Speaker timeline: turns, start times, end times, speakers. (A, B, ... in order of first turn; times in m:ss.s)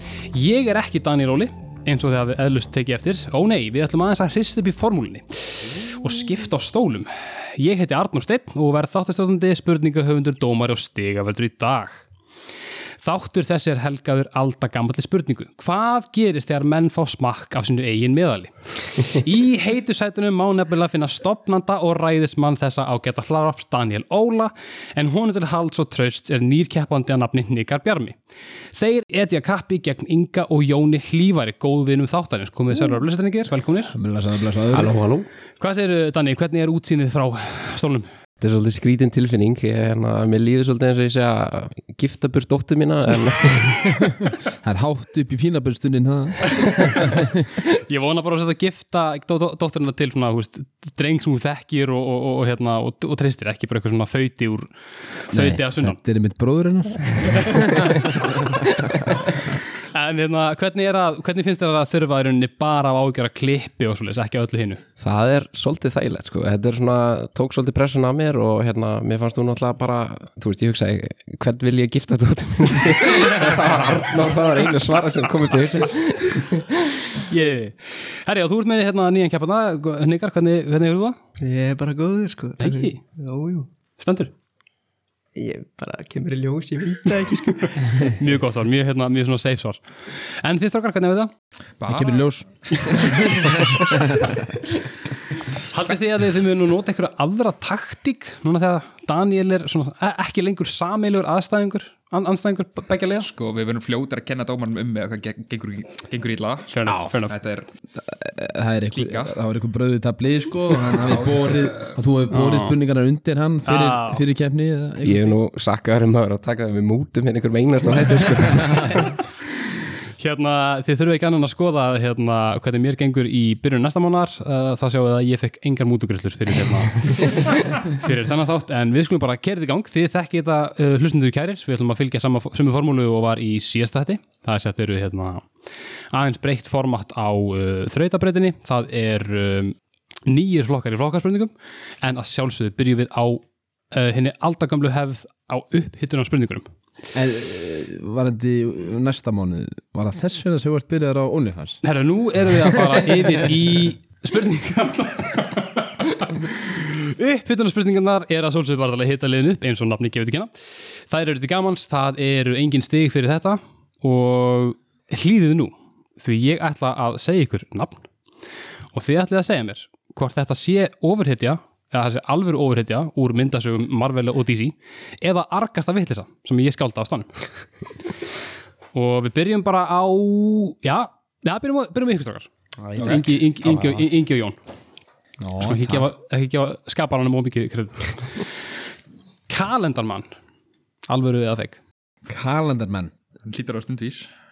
0:00.3-0:12.1 A
0:13.0-0:28.2 A
0:28.7-0:34.0 A
0:33.9-0:35.0 B
0:34.7-0:35.3 C
0:35.6-0:38.1 A
0:38.4-0:44.0 C
0:43.9-0:47.6 B
0:47.9-0:56.0 A
0:55.3-0:58.0 B
0:57.5-0:57.8 A
0:59.9-1:04.8 A
1:05.0-1:17.2 C
1:17.3-1:21.2 A
1:21.4-1:23.7 D
1:22.6-1:23.0 A
1:24.0-1:24.3 A
1:25.4-1:28.1 D
1:28.1-1:31.3 A
1:31.8-1:33.4 E
1:31.9-1:34.5 B
1:35.5-1:43.3 A
1:43.2-1:46.7 E
1:46.7-1:47.4 A
1:46.9-1:47.2 B
1:47.3-1:47.7 E
1:47.9-1:55.4 B
1:48.9-1:49.4 E
1:50.9-1:52.0 E
1:52.3-1:52.8 A
1:53.7-1:54.2 A
1:55.0-1:59.2 C
2:00.2-2:15.5 A
2:16.1-2:26.7 A
2:27.1-2:31.8 B
2:31.8-2:48.1 A
2:32.6-2:33.4 B
2:48.9-2:57.5 A
2:58.9-3:04.6 A
3:02.8-3:04.0 B
3:03.0-3:03.3 E
3:05.4-3:06.1 B
3:05.6-3:08.6 A
3:09.5-3:10.3 A
3:11.1-3:11.8 A
3:12.3-3:13.1 B
3:13.4-3:14.3 E